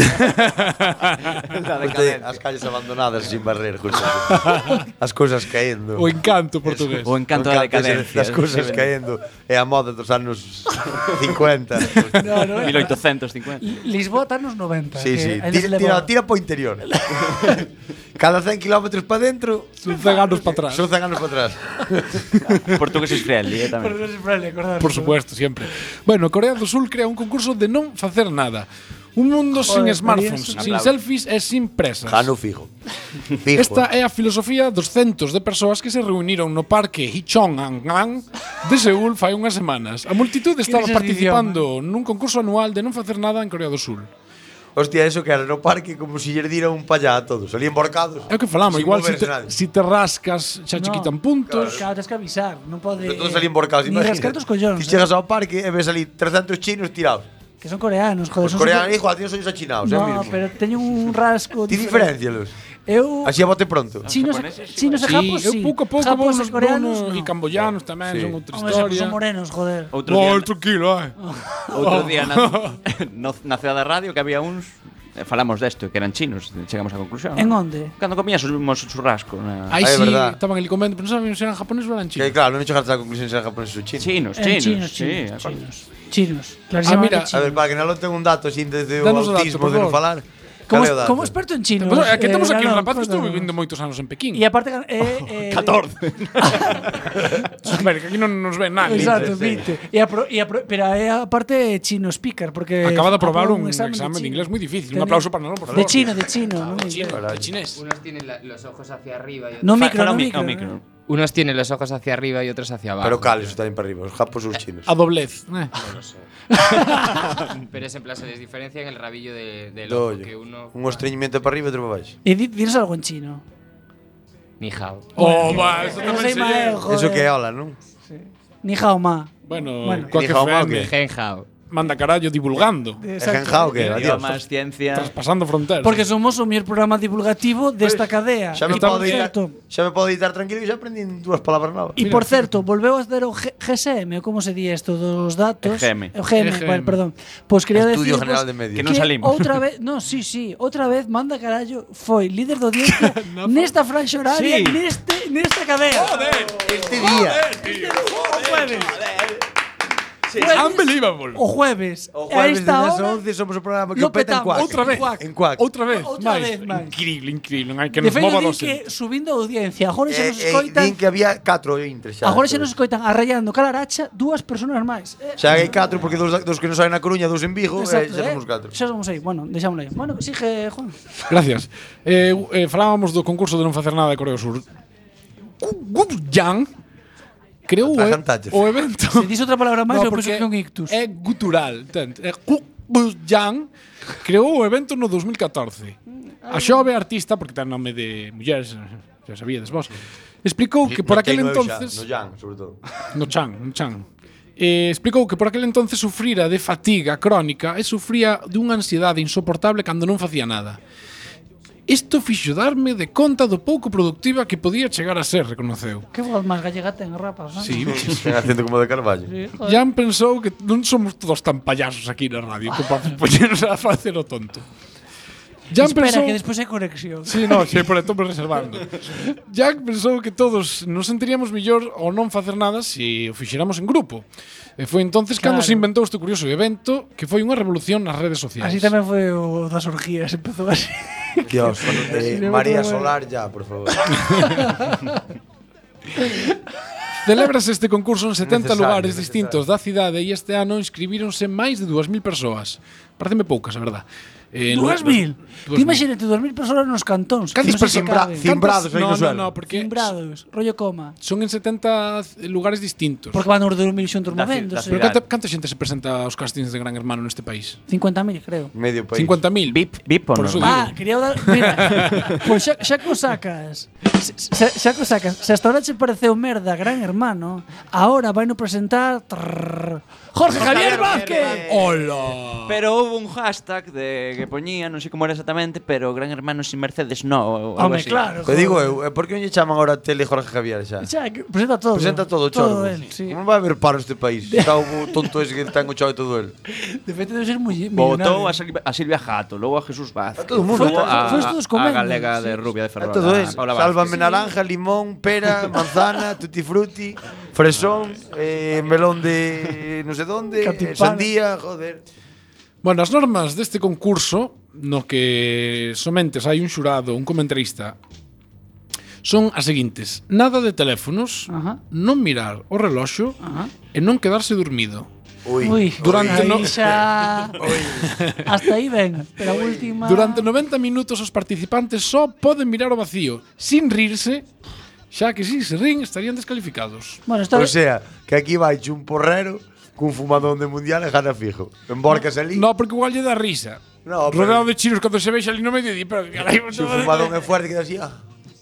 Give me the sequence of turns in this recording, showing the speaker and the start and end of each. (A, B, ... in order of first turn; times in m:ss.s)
0:00.2-0:01.4 A
0:01.5-0:02.4 B
0:01.8-0:06.1 C
0:04.3-0:04.8 A
0:06.0-0:07.1 A
0:06.6-0:12.3 C
0:07.0-0:08.9 B
0:12.1-0:12.9 D
0:12.6-0:13.6 B
0:13.6-0:16.1 D
0:15.0-0:17.0 C
0:16.9-0:17.6 D
0:18.2-0:19.8 C
0:19.8-0:20.9 A
0:19.9-0:20.4 D
0:20.5-0:22.3 C
0:22.6-0:24.0 B
0:23.7-0:25.2 D
0:24.8-0:32.3 A
0:29.6-0:30.7 D
0:30.5-0:30.9 B
0:32.0-0:32.7 C
0:33.4-0:33.9 C
0:33.5-0:44.1 A
0:40.6-0:41.6 D
0:44.8-0:49.5 C
0:48.3-0:51.8 A
0:50.7-0:55.0 D
0:51.5-0:51.8 C
0:53.0-0:57.3 C
0:57.6-0:58.9 D
0:58.4-1:00.4 C
0:59.8-1:02.1 D
1:01.7-1:02.5 C
1:02.9-1:03.4 D
1:03.2-1:04.1 C
1:04.0-1:05.1 B
1:04.0-1:07.3 D
1:05.0-1:09.2 A
1:07.6-1:08.4 C
1:08.5-1:09.9 D
1:09.9-1:10.5 B
1:10.0-1:11.1 A
1:11.2-1:11.5 D
1:11.7-1:12.8 A
1:11.7-1:19.8 B
1:17.4-1:17.9 D
1:19.7-1:22.3 A
1:19.8-1:20.4 C
1:22.2-1:24.1 C
1:24.0-1:25.6 B
1:24.4-1:27.5 D
1:26.8-1:27.3 A
1:27.3-1:31.3 C
1:29.0-1:30.0 A
1:30.7-1:33.5 D
1:31.8-1:34.4 A
1:34.3-1:35.8 D
1:35.0-1:36.8 B
1:36.4-1:37.7 D
1:37.5-1:39.4 A
1:38.8-1:47.2 D
1:38.9-1:39.6 C
1:42.8-1:46.1 A
1:45.7-1:46.1 C
1:46.8-1:47.8 A
1:47.0-1:47.5 C
1:47.7-1:49.8 E
1:49.6-1:50.7 D
1:49.7-1:50.8 B
1:51.1-1:53.5 E
1:53.0-1:54.9 C
1:54.9-1:55.7 A
1:55.8-1:56.1 E
1:56.6-1:57.2 D
1:57.7-2:01.0 E
1:59.8-2:02.1 C
2:02.2-2:03.4 D
2:04.6-2:05.9 E
2:05.2-2:06.8 A
2:05.2-2:07.3 D
2:06.8-2:07.8 C
2:08.1-2:10.1 D
2:09.5-2:10.9 A
2:10.1-2:10.9 C
2:10.8-2:11.5 E
2:11.7-2:13.0 A
2:13.0-2:14.0 D
2:13.2-2:14.4 C
2:13.8-2:15.1 B
2:14.9-2:16.0 A
2:15.8-2:19.6 D
2:18.5-2:22.0 C
2:18.6-2:19.3 A
2:22.0-2:36.3 D
2:22.0-2:22.5 A
2:25.6-2:26.1 B
2:26.3-2:27.0 A
2:27.7-2:28.9 C
2:28.7-2:29.6 B
2:32.9-2:33.7 A
2:34.3-2:34.8 B
2:35.9-2:38.4 A
2:36.6-2:37.4 C
2:37.0-2:38.9 D
2:39.1-2:39.3 B
2:40.3-2:40.6 C
2:40.3-2:43.2 D
2:40.5-2:41.4 A
2:42.1-2:45.6 C
2:43.9-2:45.2 D
2:44.5-2:48.8 A
2:45.9-2:47.0 D
2:48.0-2:51.0 D
2:50.1-2:52.7 C
2:52.2-2:55.9 D
2:55.4-2:58.7 C
2:57.8-3:01.0 D
3:01.3-3:04.6 A
3:05.6-3:06.7 A
3:07.7-3:09.3 A
3:07.8-3:08.6 C
3:09.1-3:10.9 D
3:09.9-3:13.7 A
3:14.2-3:16.0 A
3:16.4-3:16.9 D
3:16.5-3:22.0 A
3:20.8-3:22.8 C
3:23.1-3:24.0 A
3:24.6-3:30.8 A
3:31.9-3:36.0 A
3:36.1-3:38.0 D
3:37.6-3:38.4 A
3:38.0-3:39.3 C
3:39.3-3:39.8 D
3:39.6-3:44.6 A
3:45.7-3:46.4 A
3:45.8-3:47.8 D
3:47.2-3:54.2 A
3:54.8-3:58.9 A
3:55.4-3:55.9 D
3:58.6-4:03.1 D
4:01.5-4:04.0 C
4:04.3-4:05.2 D
4:06.2-4:06.6 D
4:07.2-4:16.0 A
4:08.4-4:09.6 C
4:14.7-4:18.5 D
4:17.5-4:20.1 A
4:17.6-4:19.5 C
4:19.7-4:21.2 D
4:21.2-4:23.4 A
4:23.3-4:25.1 D
4:24.3-4:25.2 B
4:24.9-4:27.8 A
4:27.9-4:28.7 D
4:28.7-4:29.4 C
4:29.1-4:32.3 A
4:29.8-4:30.8 B
4:30.6-4:41.7 D
4:40.5-4:41.9 B
4:40.7-4:41.9 C
4:40.9-4:42.8 A
4:42.6-4:48.3 B
4:47.8-4:49.0 D
4:48.4-4:51.1 C
4:51.0-4:53.4 D
4:51.9-4:56.5 C
4:54.5-4:55.3 D
4:56.7-4:58.5 D
4:57.9-5:04.2 B
5:00.4-5:01.5 C
5:00.7-5:02.6 D
5:03.0-5:12.0 C
5:04.0-5:04.5 D
5:10.6-5:11.3 D
5:12.8-5:18.0 A
5:19.2-5:25.1 A
5:21.5-5:21.8 D
5:23.4-5:23.7 D
5:25.4-5:27.0 C
5:25.6-5:27.6 D
5:26.0-5:27.0 A
5:27.6-5:28.1 C
5:27.7-5:28.5 A
5:28.4-5:30.5 D
5:30.0-5:34.4 A
5:35.1-5:37.2 A
5:37.3-5:37.7 D
5:37.5-5:42.7 C
5:42.5-5:47.4 A
5:44.0-5:44.7 C
5:46.7-5:48.2 C